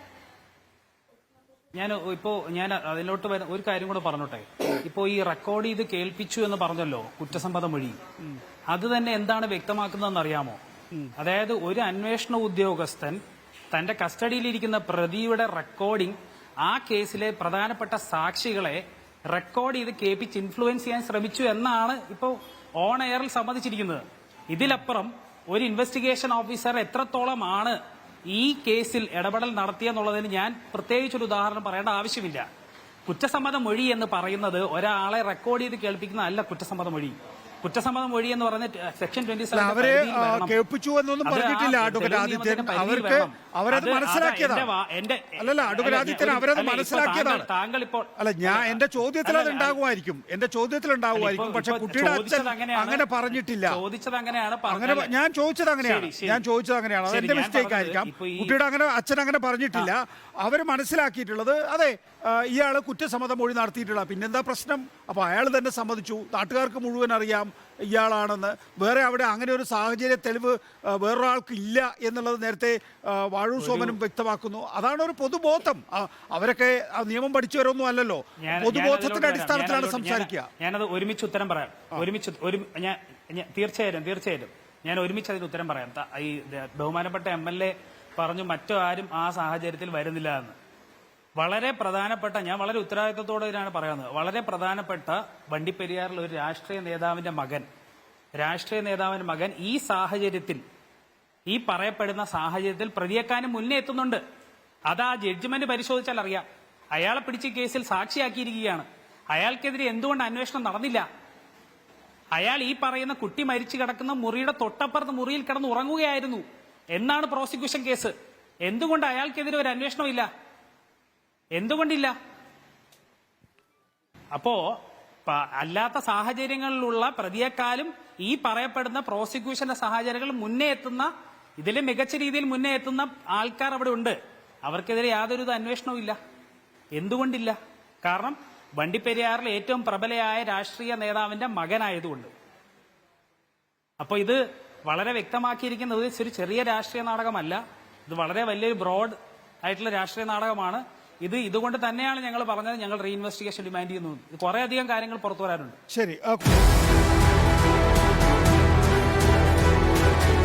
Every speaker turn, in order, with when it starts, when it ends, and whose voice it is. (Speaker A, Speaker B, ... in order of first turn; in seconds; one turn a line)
Speaker A: 1.7-8.0
Speaker A: 8.7-10.6
Speaker A: 11.1-13.2
Speaker A: 13.7-27.8
Speaker A: 28.3-32.5
Speaker A: 33.1-40.6
Speaker B: 39.5-44.7
Speaker A: 41.2-49.8
Speaker B: 45.4-47.5
Speaker B: 48.2-53.8
Speaker A: 51.1-55.1
Speaker B: 54.7-80.5
Speaker A: 55.8-56.4
Speaker A: 57.0-58.5
Speaker A: 73.6-74.0
Speaker A: 78.4-90.6
Speaker A: 91.4-97.7
Speaker A: 98.3-100.6
Speaker A: 101.5-104.2
Speaker A: 104.9-111.1
Speaker A: 112.3-118.1
Speaker A: 118.7-120.3
Speaker A: 121.6-122.1
Speaker A: 124.3-136.2
Speaker A: 137.0-142.3
Speaker A: 144.0-155.8
Speaker B: 155.9-156.6